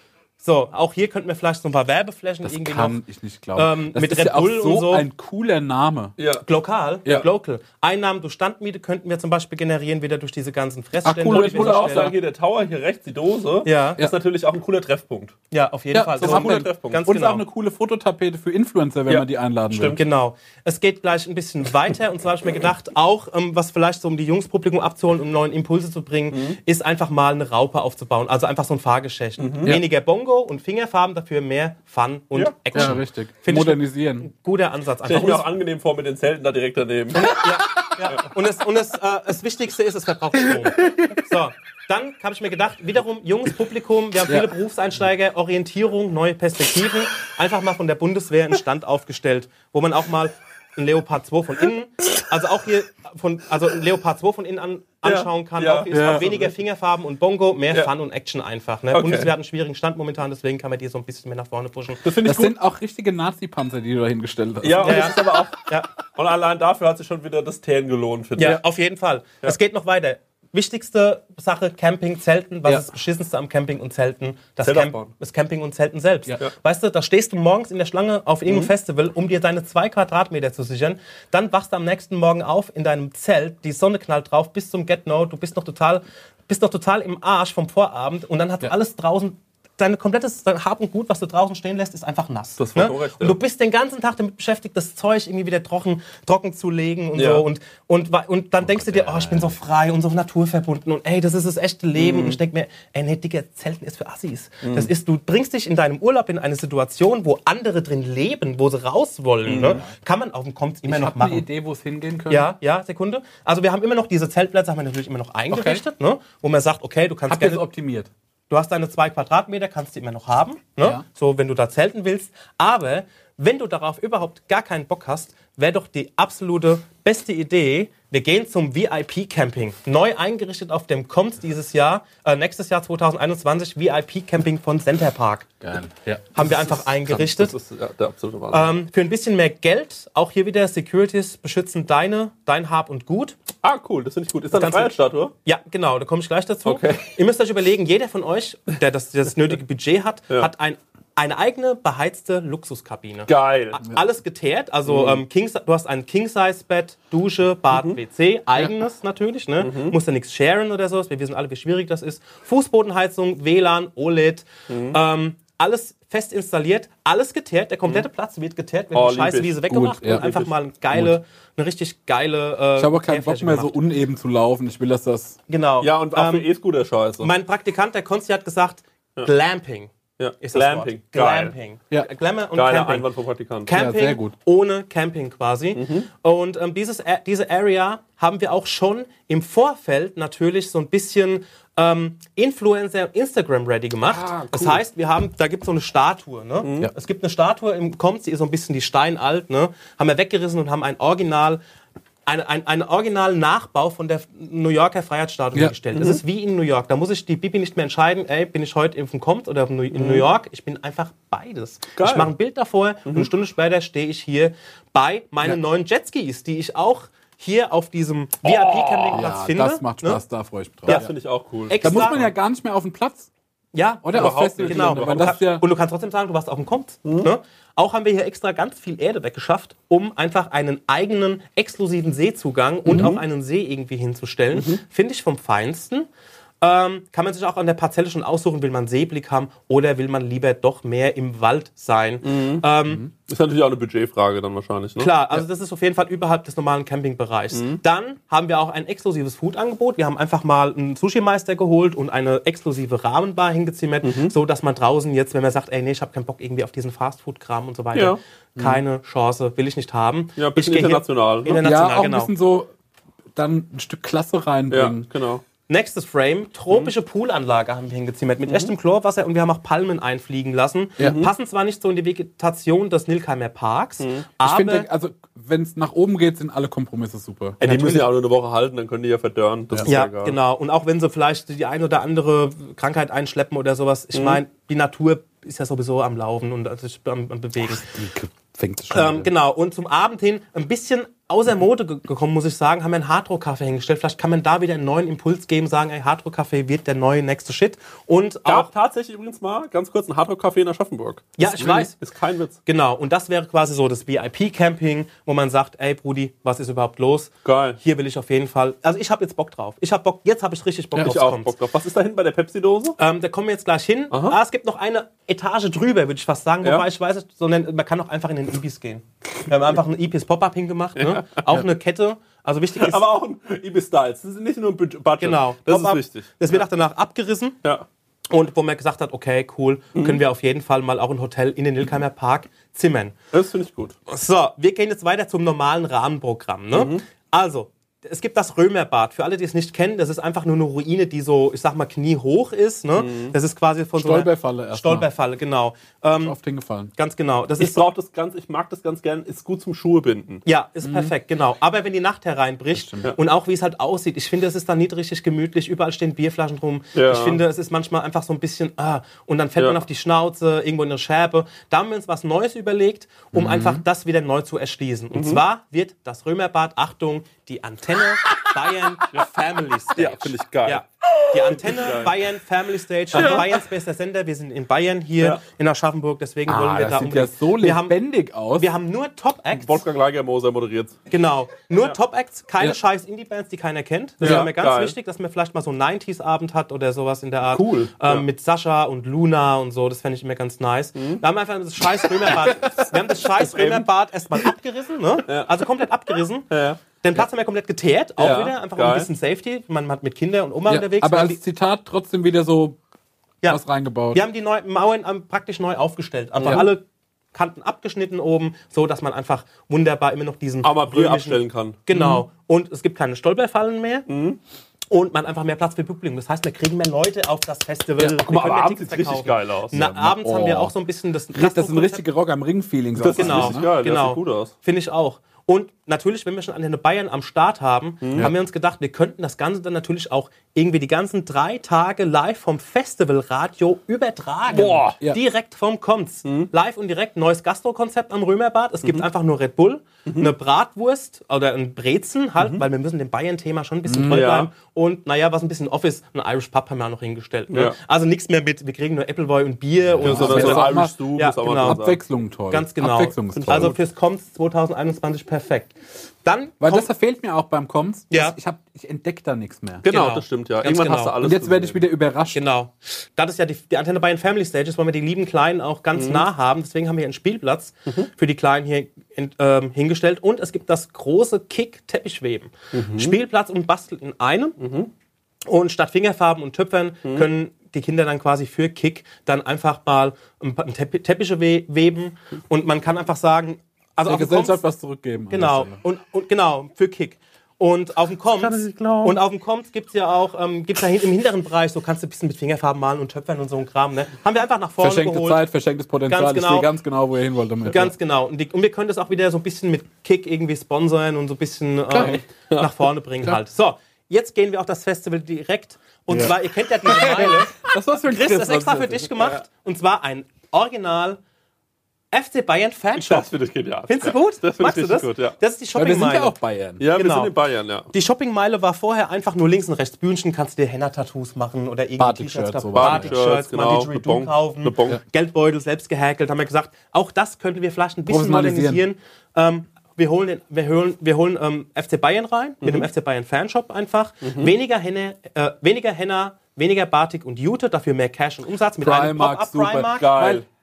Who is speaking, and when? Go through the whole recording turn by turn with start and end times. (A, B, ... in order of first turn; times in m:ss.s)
0:00.4-0:03.0 A
0:02.4-0:06.1 B
0:03.5-0:05.1 A
0:06.2-0:06.4 C
0:06.4-0:12.1 A
0:11.0-0:12.2 B
0:11.3-0:15.4 C
0:13.6-0:14.0 A
0:15.5-0:17.4 A
0:15.9-0:20.0 B
0:16.2-0:17.0 C
0:19.1-0:20.0 C
0:19.9-0:35.5 A
0:26.3-0:26.6 C
0:29.4-0:29.8 C
0:32.3-0:33.0 C
0:32.7-0:34.3 B
0:35.0-0:37.4 C
0:37.1-1:02.0 A
0:44.3-0:44.5 B
0:55.0-0:56.5 C
0:55.9-0:56.3 B
0:58.9-0:59.3 C
1:02.0-1:02.5 C
1:02.2-1:05.5 B
1:04.6-1:08.6 C
1:04.8-1:05.9 A
1:08.4-1:51.5 A
1:14.6-1:15.1 C
1:32.6-1:33.4 C
1:37.1-1:37.4 C
1:38.6-1:39.6 B
1:42.0-1:42.4 C
1:44.6-1:44.9 C
1:49.4-1:49.8 C
1:49.6-1:49.9 B
1:50.8-1:52.5 B
1:52.3-1:57.7 A
1:55.5-1:55.8 B
1:57.3-1:58.1 B
1:58.5-2:15.5 A
2:15.6-2:16.4 B
2:16.3-2:17.5 A
2:16.7-2:18.7 C
2:18.5-2:23.4 A
2:23.6-2:25.3 C
2:24.5-2:53.8 A
2:26.6-2:27.1 C
2:33.3-2:33.8 C
2:34.9-2:35.2 C
2:37.7-2:38.0 C
2:39.6-2:40.0 C
2:44.7-2:45.0 C
2:48.9-2:50.5 C
2:49.7-2:50.3 B
2:50.9-2:51.2 B
2:52.8-2:55.4 B
2:55.5-2:56.5 A
2:55.8-2:57.3 C
2:57.2-2:59.9 A
3:00.2-3:01.5 C
3:00.4-3:03.1 A
3:02.5-3:03.7 C
3:03.6-3:21.6 A
3:03.7-3:04.3 B
3:05.7-3:06.1 C
3:14.1-3:14.8 C
3:16.6-3:16.9 C
3:22.2-3:40.2 A
3:26.0-3:26.2 C
3:29.9-3:30.2 C
3:32.0-3:32.3 C
3:38.4-3:39.2 C
3:39.1-3:41.1 B
3:40.9-3:42.2 C
3:41.7-3:42.3 A
3:41.8-3:43.3 B
3:43.7-3:56.1 A
3:44.0-3:45.6 B
3:44.1-3:45.4 C
3:47.0-3:47.3 C
3:52.8-3:53.2 C
3:54.5-3:54.8 C
3:56.6-4:03.0 A
4:02.2-4:05.4 C
4:05.0-4:22.3 A
4:07.5-4:07.8 C
4:14.0-4:14.3 C
4:17.9-4:18.2 C
4:18.6-4:18.8 B
4:20.4-4:21.6 C
4:21.6-4:22.7 B
4:23.3-4:25.1 B
4:24.7-4:25.4 C
4:25.7-4:34.9 A
4:31.0-4:31.3 C
4:34.0-4:34.3 C
4:34.4-4:37.6 B
4:37.6-4:40.4 C
4:37.6-4:38.1 A
4:39.8-4:47.8 A
4:44.1-4:44.4 C
4:47.6-4:49.3 B
4:48.9-4:58.7 A
4:58.4-5:02.6 C
5:01.4-5:01.9 A
5:02.6-5:11.5 A
5:07.4-5:07.8 C
5:11.0-5:13.0 C
5:13.0-5:23.0 A
5:14.1-5:14.4 C
5:21.0-5:21.6 C
5:22.8-5:26.6 C
5:25.2-5:27.6 A
5:28.3-5:33.1 A
5:33.3-5:34.0 C
5:34.1-5:46.4 A
5:36.7-5:37.0 C
5:43.0-5:43.3 C
5:44.0-5:45.1 B
5:46.1-5:46.9 B
5:47.0-5:47.8 A
5:47.6-5:50.4 C
5:50.4-6:18.0 A
5:50.8-5:51.1 B
5:52.7-5:53.2 B
5:56.9-5:57.4 C
6:03.3-6:03.8 B
6:05.1-6:05.4 C
6:10.0-6:12.2 C
6:13.1-6:13.6 C
6:16.4-6:18.7 B
6:18.5-6:19.8 A
6:19.5-6:21.0 C
6:21.1-6:41.4 A
6:24.2-6:25.0 C
6:24.2-6:24.5 B
6:27.5-6:28.2 C
6:31.0-6:31.2 C
6:32.8-6:33.9 C
6:35.3-6:35.6 C
6:36.5-6:36.8 C
6:38.2-6:39.1 C
6:40.7-6:42.8 B
6:43.4-6:54.0 A
6:43.5-6:44.2 B
6:46.4-6:46.7 C
6:46.4-6:46.7 B
6:50.6-6:51.8 C
6:51.9-6:52.2 B
6:54.1-6:54.4 C
6:54.9-7:02.0 A
6:58.0-6:59.7 C
6:59.7-7:00.8 B
7:01.3-7:03.7 B
7:03.0-7:04.5 C
7:03.1-7:31.8 A
7:08.0-7:08.3 C
7:14.5-7:15.0 C
7:16.2-7:16.5 C
7:20.0-7:20.3 C
7:22.4-7:22.6 C
7:23.8-7:24.3 B
7:24.1-7:24.5 C
7:27.5-7:27.8 C
7:29.9-7:33.7 B
7:30.0-7:32.0 C
7:32.5-7:36.9 A
7:33.3-7:33.8 C
7:36.6-7:39.8 B
7:38.1-7:38.3 A
7:39.8-7:41.8 C
7:39.9-7:41.1 A
7:41.2-7:42.4 B
7:42.3-7:54.6 A
7:46.0-7:46.2 C
7:52.7-7:53.2 C
7:54.6-7:54.9 C
7:55.5-8:04.6 A
8:04.0-8:05.8 B
8:05.3-8:15.5 A
8:08.4-8:09.2 B
8:14.8-8:17.9 B
8:16.1-8:16.7 A
8:17.7-8:31.2 A
8:21.9-8:22.2 B
8:22.0-8:22.7 C
8:26.1-8:29.1 B
8:32.1-8:33.3 A
8:33.0-8:35.3 C
8:33.9-8:36.4 A
8:35.7-8:36.9 B
8:36.8-8:37.9 C
8:37.0-8:37.3 A
8:37.9-9:00.1 A
8:42.0-8:43.2 B
8:42.7-8:45.0 C
8:48.1-8:48.8 B
8:52.6-8:52.9 C
8:54.2-8:54.5 C
8:58.8-9:00.4 B
8:59.9-9:00.4 C